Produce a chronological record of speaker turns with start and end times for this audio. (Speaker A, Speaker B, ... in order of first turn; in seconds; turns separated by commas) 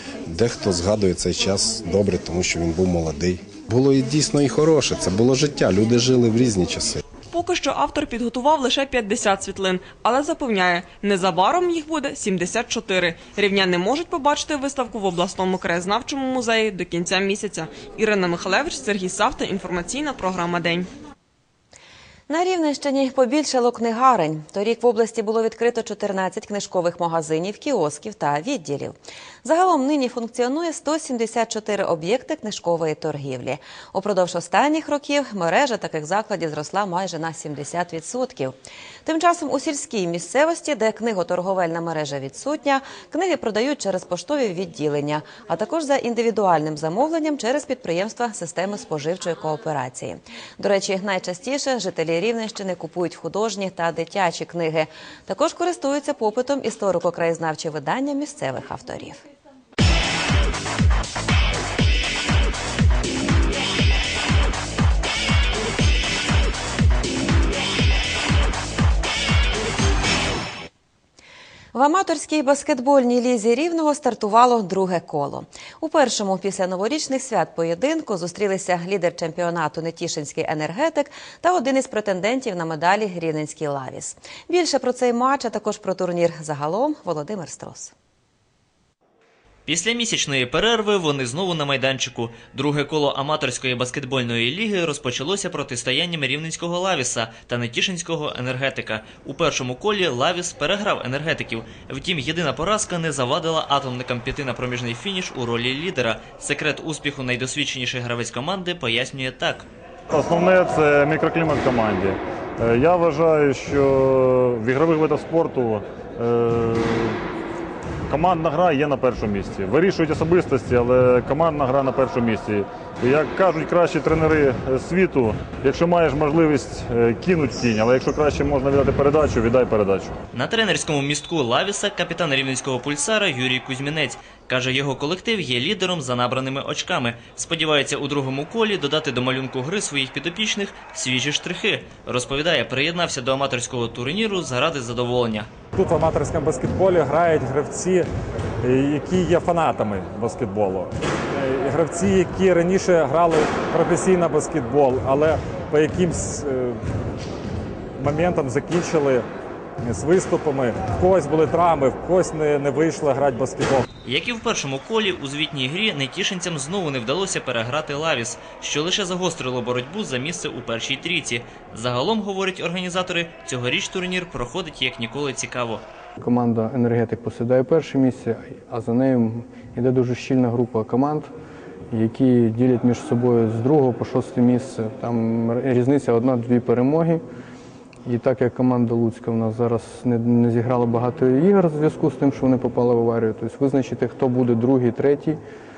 Speaker A: 0.3-7.0, Speaker B: 7.3-20.9, Speaker C: 22.3-59.2, Speaker C: 71.7-87.9, Speaker D: 89.7-109.7, Speaker E: 110.1-117.1, Speaker E: 118.1-130.1, Speaker D: 130.3-145.5, Speaker F: 145.8-148.0, Speaker F: 148.7-156.7, Speaker F: 158.0-159.2, Speaker F: 159.8-163.8, Speaker D: 164.1-175.8, Speaker G: 176.2-181.3, Speaker G: 181.9-187.2, Speaker G: 188.1-195.4